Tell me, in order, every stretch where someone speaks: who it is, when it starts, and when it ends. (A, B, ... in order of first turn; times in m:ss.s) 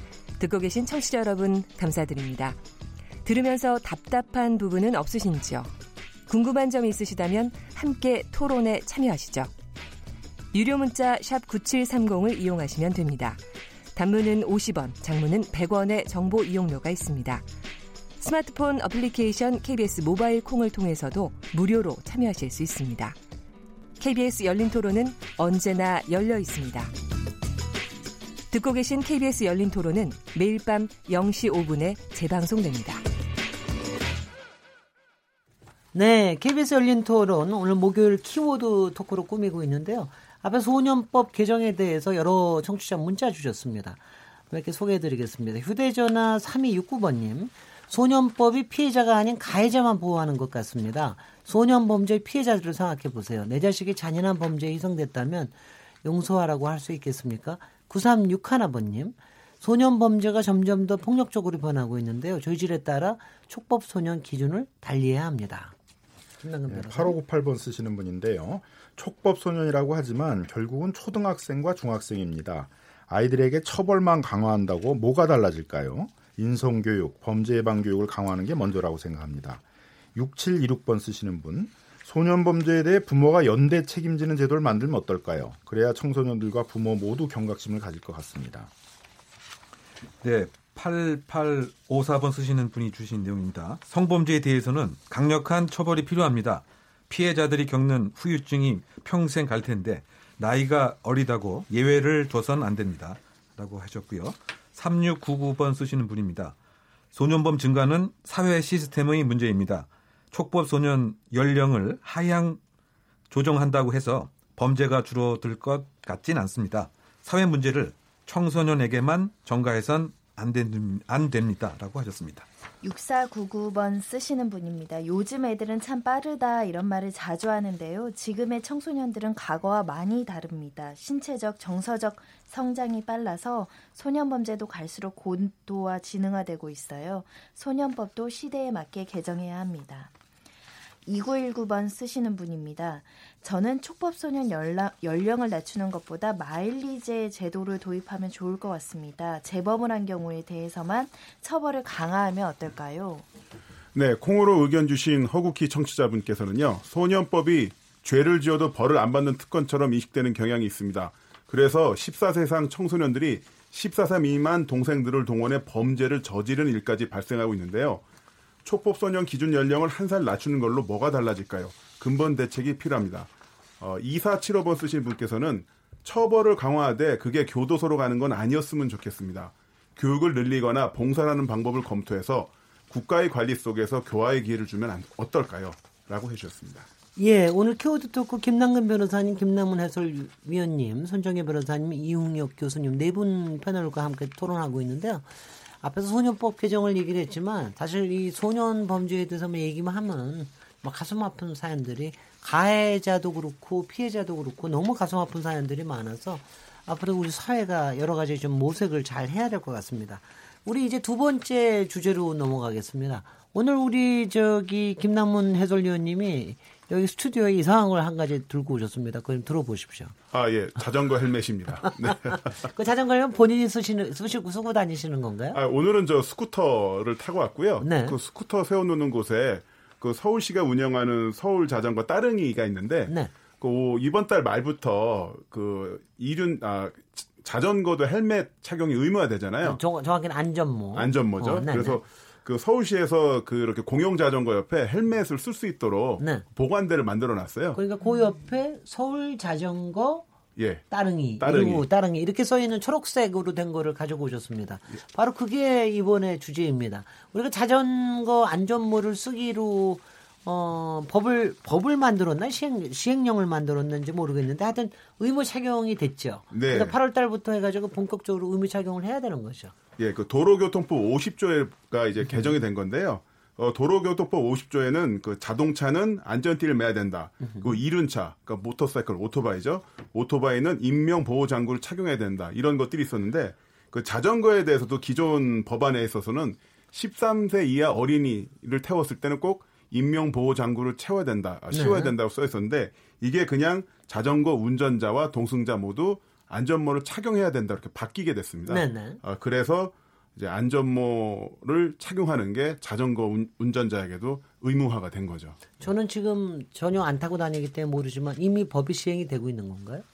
0:00.4-0:02.6 A
0:03.2-0:05.7 A
0:06.3-0:09.5 A
0:10.5-0:13.4 A
0:14.0-0:17.4 A
0:18.2-0:23.2 A
0:24.0-0:26.9 A
0:28.5-0:33.0 A
0:35.9-1:05.7 B
1:06.4-1:07.2 B
1:06.7-1:19.6 C
1:20.1-1:28.7 C
1:30.2-1:46.6 D
1:47.1-1:52.6 D
1:53.3-2:02.5 D
2:02.8-2:20.1 E
2:21.1-2:33.3 E
2:33.9-2:48.0 F
2:48.6-3:06.9 F
3:07.2-3:15.3 B
3:15.8-3:40.2 B
3:40.3-3:42.7 F
3:41.8-3:45.6 B
3:45.5-3:59.8 F
3:47.8-3:48.2 B
3:59.6-4:02.0 B
4:00.9-4:07.8 F
4:06.2-4:06.4 B
4:07.7-4:10.2 B
4:10.6-4:10.9 F
4:10.9-4:29.7 B
4:11.4-4:11.9 F
4:26.5-4:27.0 F
4:30.0-5:05.6 F
4:37.4-4:37.8 B
4:51.7-4:52.1 B
4:58.7-4:59.2 B
5:05.8-5:10.0 B